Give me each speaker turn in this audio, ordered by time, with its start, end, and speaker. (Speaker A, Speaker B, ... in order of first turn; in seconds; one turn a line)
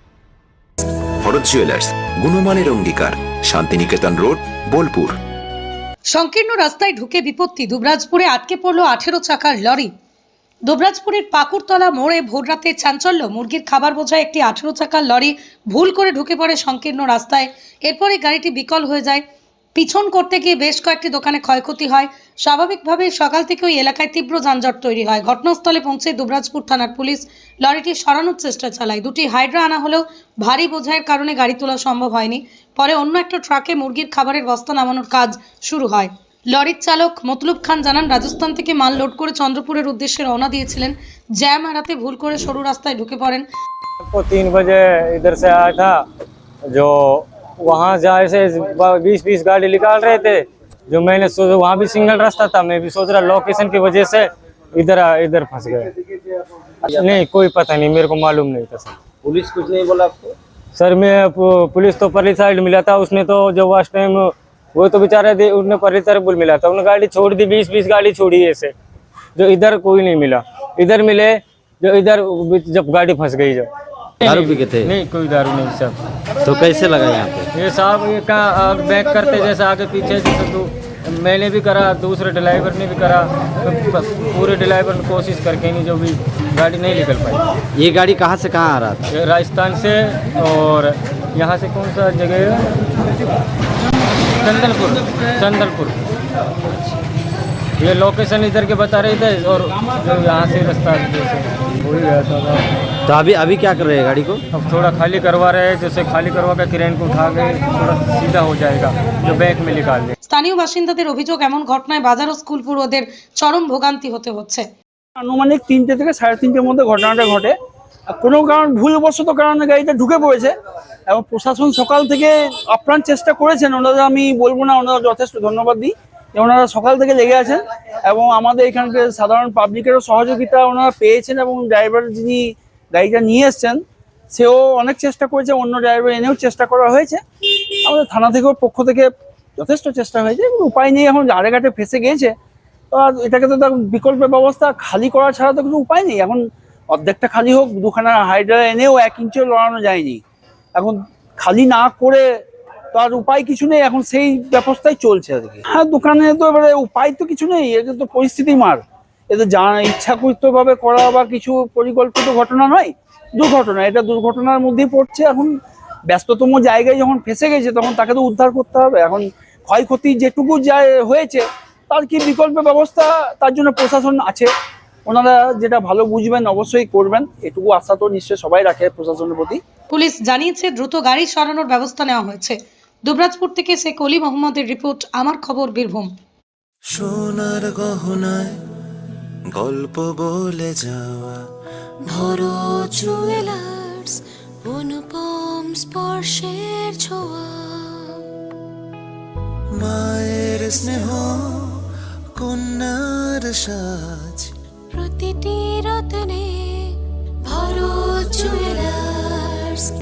Speaker A: 1.2-5.2
Speaker B: 6.1-9.9
Speaker B: 10.7-19.2
Speaker B: 19.8-43.5
Speaker C: 44.1-46.0
Speaker C: 46.7-55.9
Speaker C: 56.9-59.0
Speaker D: 56.9-57.2
Speaker D: 59.2-60.3
Speaker C: 60.8-68.7
Speaker C: 69.4-73.7
Speaker C: 74.2-76.0
Speaker D: 74.2-74.9
Speaker D: 76.4-77.5
Speaker C: 77.5-87.4
Speaker D: 87.8-89.1
Speaker C: 89.1-92.7
Speaker C: 94.4-96.0
Speaker C: 97.8-102.7
Speaker D: 103.1-104.4
Speaker C: 104.5-110.2
Speaker B: 110.2-114.7
Speaker E: 115.2-117.5
Speaker E: 118.1-120.5
Speaker E: 121.1-133.8
Speaker E: 134.3-137.2
Speaker E: 137.8-142.3
Speaker E: 142.9-150.2
Speaker E: 150.8-152.2
Speaker E: 152.9-165.5
Speaker E: 166.1-174.5
Speaker E: 175.1-179.6
Speaker B: 179.9-186.1
Speaker F: 186.9-188.6
Speaker F: 189.5-191.2
Speaker G: 192.1-194.2
Speaker G: 194.7-198.0
Speaker F: 199.7-201.2
Speaker F: 202.4-203.9
Speaker G: 204.9-206.5
Speaker G: 207.5-209.9